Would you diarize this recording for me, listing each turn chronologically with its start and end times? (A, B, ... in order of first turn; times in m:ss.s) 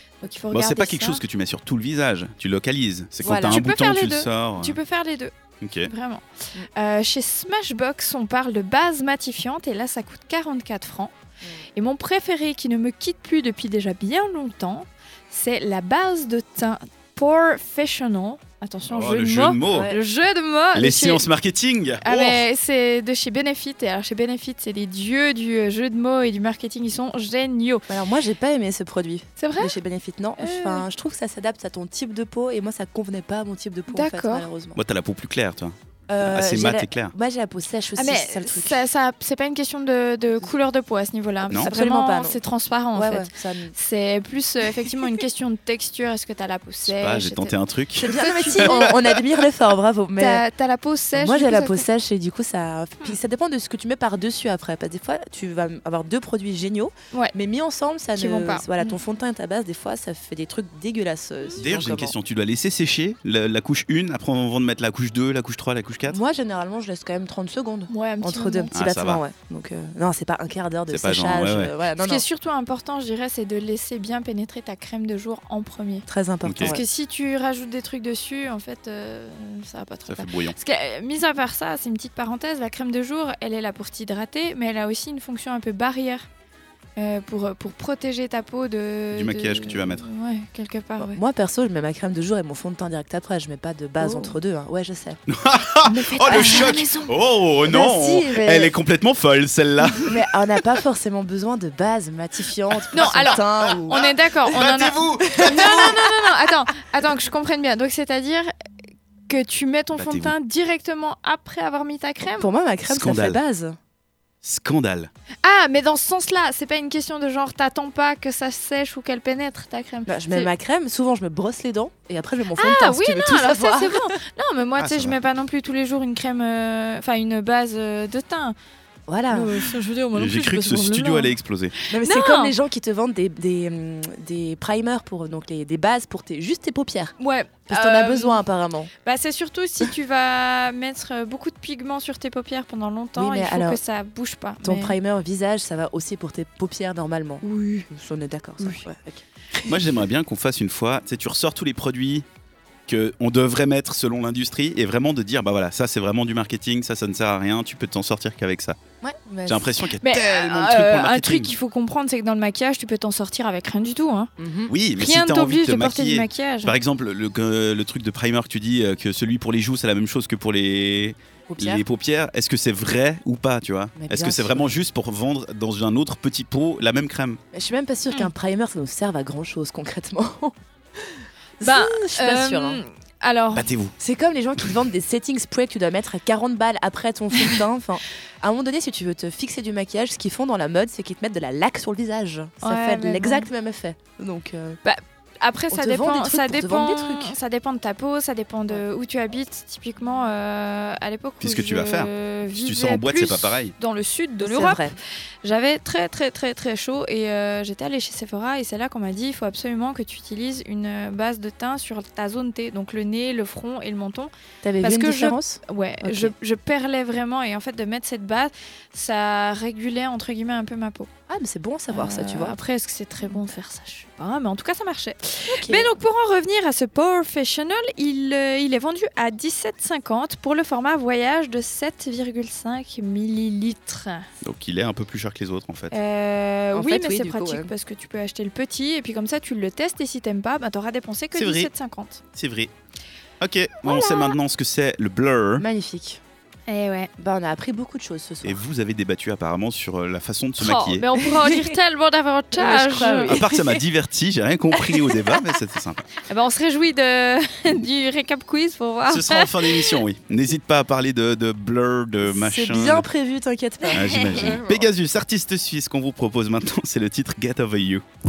0:00.2-0:01.2 A
0:00.5-0:04.8 B
0:03.2-0:03.6 C
0:03.2-0:05.3 A
0:05.6-0:05.9 B
0:05.8-0:11.1 A
0:11.7-0:21.2 A
0:18.9-0:19.9 B
0:19.6-0:20.0 C
0:20.7-0:22.4 B
0:22.0-0:27.8 A
0:27.9-0:34.8 C
0:29.4-0:29.8 A
0:30.4-0:30.9 A
0:33.9-0:34.5 A
0:34.7-0:37.1 B
0:36.1-0:38.8 C
0:38.0-0:47.5 A
0:41.4-0:42.4 C
0:42.9-0:43.7 C
0:46.9-0:48.9 B
0:48.0-0:50.4 C
0:48.2-0:48.9 A
0:50.2-0:51.8 A
0:51.1-1:02.1 C
0:58.1-0:59.0 A
1:01.6-1:06.2 B
1:06.1-1:12.2 C
1:07.9-1:08.7 A
1:08.7-1:09.2 B
1:10.9-1:11.7 B
1:12.0-1:16.0 A
1:16.1-1:16.8 C
1:16.4-1:16.8 B
1:16.6-1:26.2 A
1:20.0-1:20.6 B
1:27.0-1:31.2 A
1:29.1-1:30.1 B
1:31.0-1:35.2 C
1:34.0-1:34.4 A
1:35.3-1:40.2 B
1:35.8-1:37.1 A
1:36.2-1:36.8 C
1:37.7-1:38.7 C
1:40.0-1:44.6 C
1:42.8-1:46.0 B
1:42.9-1:48.5 A
1:45.2-1:46.1 C
1:49.3-1:52.5 A
1:49.9-1:50.3 B
1:52.4-1:53.8 C
1:52.9-1:53.4 B
1:54.4-1:55.1 B
1:55.4-2:00.5 A
2:00.0-2:04.2 C
2:02.6-2:08.6 A
2:04.8-2:05.2 B
2:09.1-2:09.7 C
2:09.3-2:12.6 A
2:10.1-2:11.7 B
2:11.9-2:17.1 C
2:17.2-2:18.4 A
2:17.7-2:18.9 C
2:19.0-2:25.0 A
2:23.1-2:23.8 C
2:24.6-2:29.9 C
2:27.4-2:27.9 A
2:28.6-2:28.8 A
2:29.6-2:32.2 B
2:32.9-2:38.8 B
2:39.0-2:39.7 C
2:39.4-2:41.5 B
2:40.0-2:44.3 A
2:44.4-2:44.7 C
2:44.7-2:57.4 B
2:45.0-2:46.8 A
2:51.5-2:51.8 C
2:53.9-2:54.7 C
2:57.5-3:02.8 C
3:01.6-3:03.7 A
3:03.5-3:03.9 B
3:04.0-3:14.8 C
3:12.6-3:13.5 A
3:14.8-3:34.3 A
3:15.7-3:17.4 C
3:21.4-3:23.7 B
3:24.4-3:25.0 C
3:34.6-3:36.3 C
3:34.8-3:41.1 A
3:41.3-3:42.6 C
3:41.9-3:54.2 A
3:45.5-3:45.9 C
3:54.4-3:56.0 B
3:55.9-4:02.2 A
3:56.7-3:57.7 C
4:01.3-4:01.7 B
4:02.3-4:02.7 B
4:03.4-4:05.6 B
4:03.8-4:04.3 A
4:05.6-4:06.2 C
4:06.7-4:07.1 A
4:07.2-4:08.6 C
4:08.4-4:11.0 B
4:10.6-4:13.6 A
4:11.2-4:11.8 C
4:12.6-4:13.4 C
4:13.3-4:16.1 B
4:14.8-4:15.4 A
4:16.2-4:20.0 A
4:19.1-4:23.1 B
4:22.2-4:24.8 C
4:23.9-4:28.0 B
4:23.9-4:24.6 A